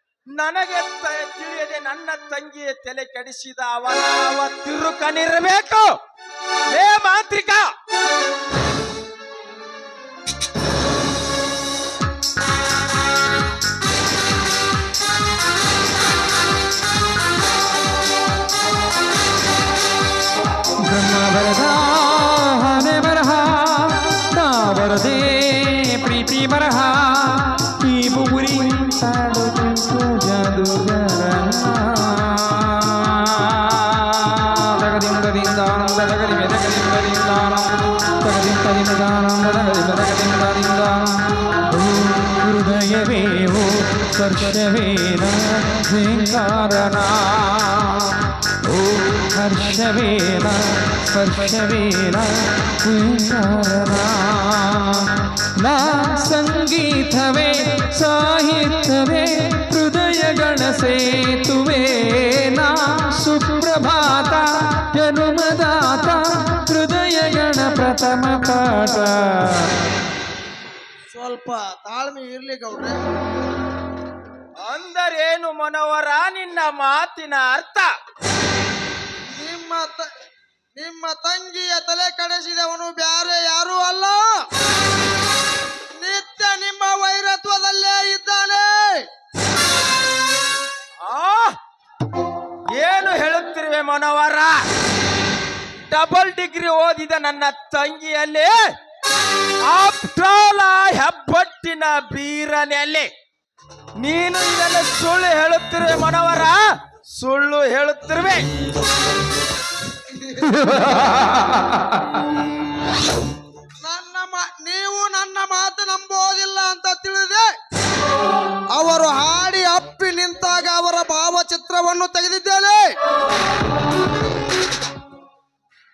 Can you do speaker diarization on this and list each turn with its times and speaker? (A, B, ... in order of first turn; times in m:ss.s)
0:00.3-0:06.0 A
0:06.7-0:07.7 A
0:20.8-0:48.2 B
0:48.7-1:09.7 B
1:11.1-1:13.0 C
1:14.6-1:17.9 A
1:19.3-1:20.1 C
1:20.8-1:24.2 C
1:26.0-1:29.0 C
1:31.0-1:31.6 A
1:32.8-1:34.6 A
1:35.9-1:38.6 A
1:39.7-1:43.1 A
1:44.0-1:46.6 A
1:47.2-1:48.5 A
1:53.8-1:57.5 C
1:58.7-2:02.9 C